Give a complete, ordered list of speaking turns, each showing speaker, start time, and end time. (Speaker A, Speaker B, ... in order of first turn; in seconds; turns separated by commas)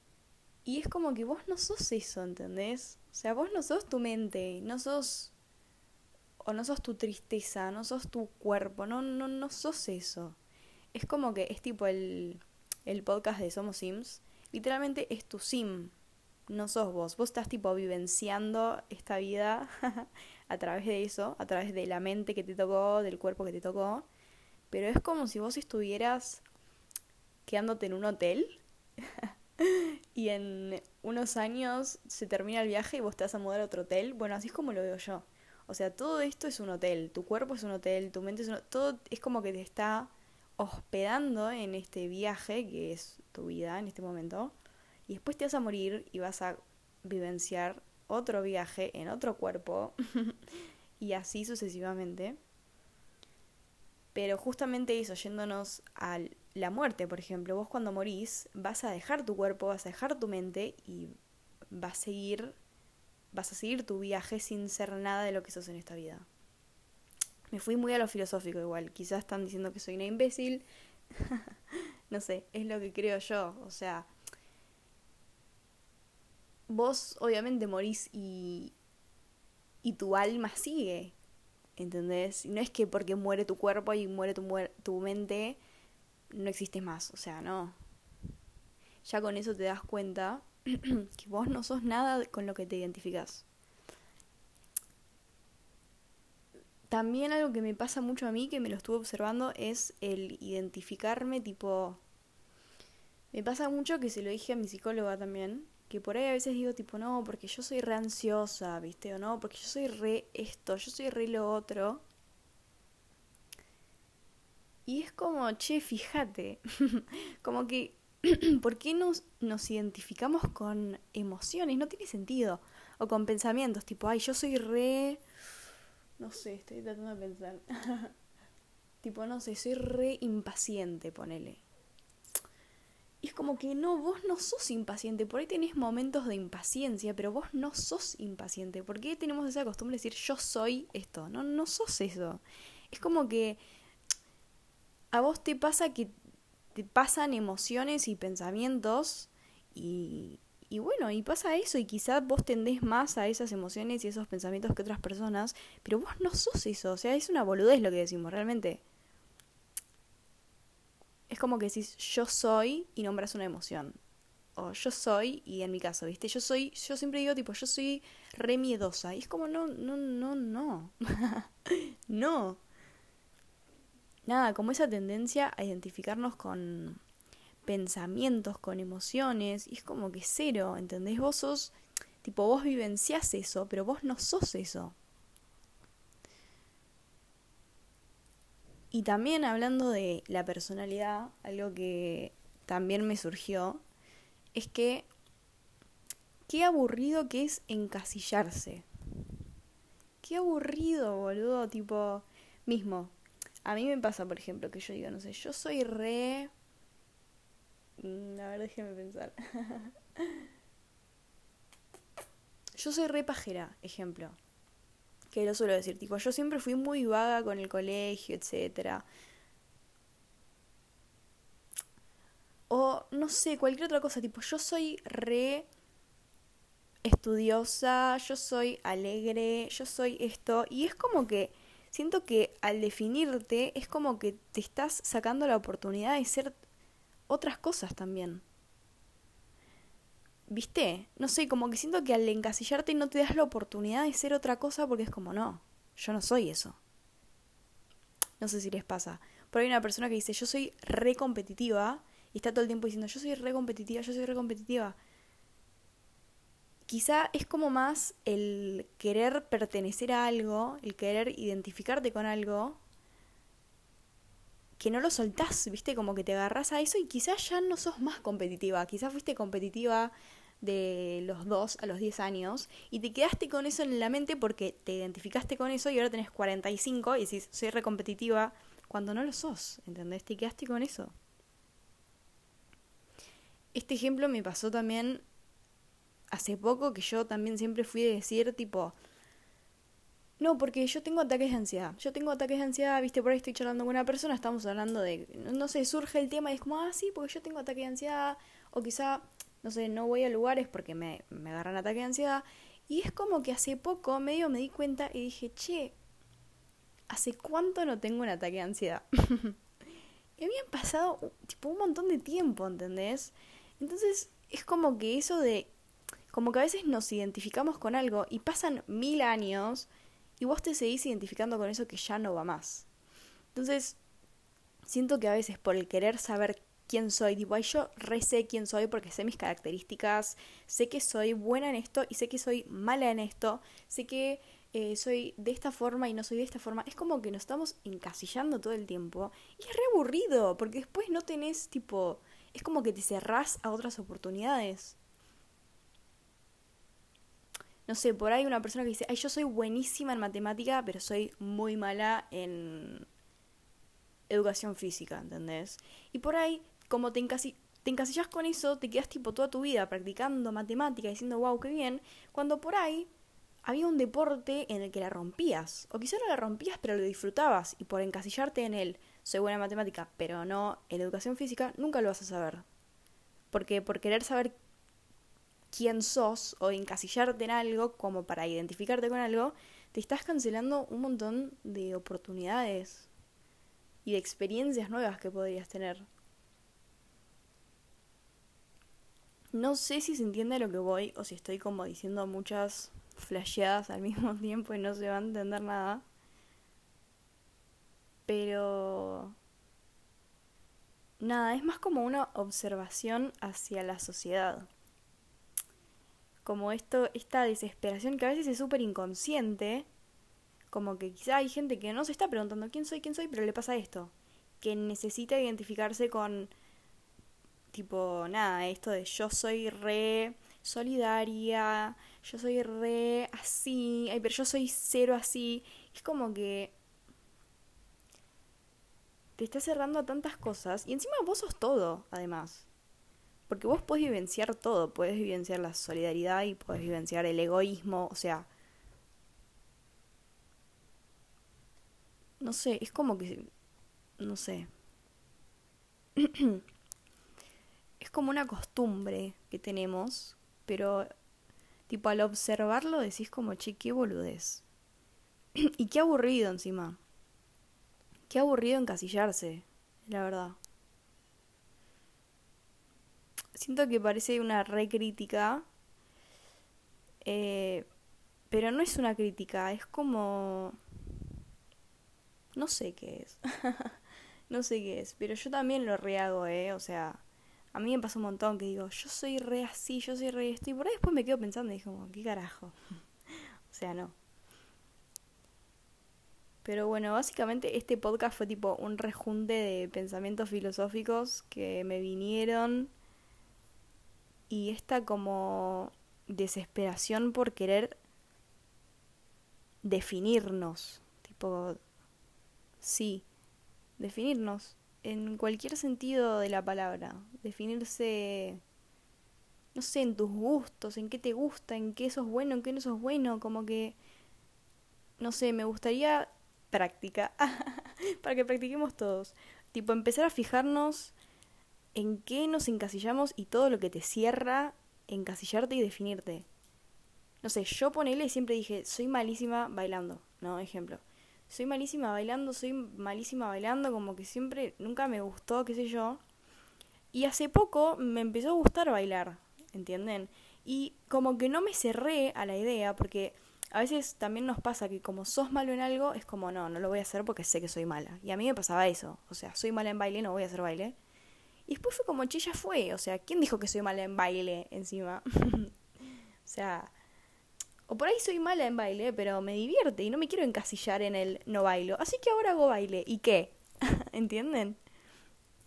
Speaker A: 0.7-5.3, Speaker A: 6.4-10.4, Speaker A: 10.9-15.9, Speaker A: 16.5-24.1, Speaker A: 24.7-26.4, Speaker A: 27.5-44.5, Speaker A: 45.1-50.4, Speaker A: 51.0-52.4, Speaker A: 54.1-61.1, Speaker A: 61.7-62.6, Speaker A: 63.3-66.3, Speaker A: 67.5-71.5, Speaker A: 72.1-74.1, Speaker A: 76.7-78.7, Speaker A: 79.8-81.1, Speaker A: 81.8-85.6, Speaker A: 86.3-87.8, Speaker A: 89.0-93.5, Speaker A: 96.9-102.0, Speaker A: 103.3-112.0, Speaker A: 114.9-125.2, Speaker A: 126.2-128.2, Speaker A: 129.0-131.6, Speaker A: 133.2-143.6, Speaker A: 145.1-146.1, Speaker A: 146.7-158.8, Speaker A: 161.3-164.0, Speaker A: 164.6-172.6, Speaker A: 174.3-177.0, Speaker A: 177.6-184.9, Speaker A: 188.9-193.8, Speaker A: 194.5-195.1, Speaker A: 196.5-198.9, Speaker A: 200.2-203.1, Speaker A: 203.7-206.5, Speaker A: 208.0-210.4, Speaker A: 212.8-214.4, Speaker A: 215.3-219.1, Speaker A: 222.7-225.7, Speaker A: 227.0-236.6, Speaker A: 237.3-238.4, Speaker A: 240.5-246.8, Speaker A: 248.4-255.0, Speaker A: 256.9-262.8, Speaker A: 264.8-281.1, Speaker A: 283.7-285.2, Speaker A: 286.3-288.9, Speaker A: 290.4-305.9, Speaker A: 307.1-309.6, Speaker A: 310.4-315.7, Speaker A: 316.3-322.9, Speaker A: 323.5-324.0, Speaker A: 324.9-345.0, Speaker A: 347.9-353.1, Speaker A: 354.3-363.1, Speaker A: 363.6-372.6, Speaker A: 373.5-374.5, Speaker A: 375.7-383.1, Speaker A: 384.1-386.1, Speaker A: 389.5-396.0, Speaker A: 398.3-399.4, Speaker A: 401.2-404.7, Speaker A: 406.4-409.9, Speaker A: 410.7-416.5, Speaker A: 417.7-426.7, Speaker A: 429.4-432.7, Speaker A: 433.5-438.5, Speaker A: 442.4-443.5, Speaker A: 444.2-444.7, Speaker A: 446.2-446.6, Speaker A: 448.0-451.1, Speaker A: 451.9-454.6, Speaker A: 455.6-457.0, Speaker A: 458.3-460.6, Speaker A: 463.6-465.7, Speaker A: 467.2-467.9, Speaker A: 468.5-470.8, Speaker A: 472.6-474.0, Speaker A: 474.5-477.2, Speaker A: 477.7-482.8, Speaker A: 483.7-484.1, Speaker A: 486.6-492.9, Speaker A: 494.5-498.0, Speaker A: 499.8-501.8, Speaker A: 502.8-503.3, Speaker A: 504.0-508.6, Speaker A: 509.8-514.0, Speaker A: 515.2-521.1, Speaker A: 522.0-526.5, Speaker A: 527.4-536.2, Speaker A: 537.1-551.0, Speaker A: 551.7-555.7, Speaker A: 556.5-556.9, Speaker A: 557.9-564.8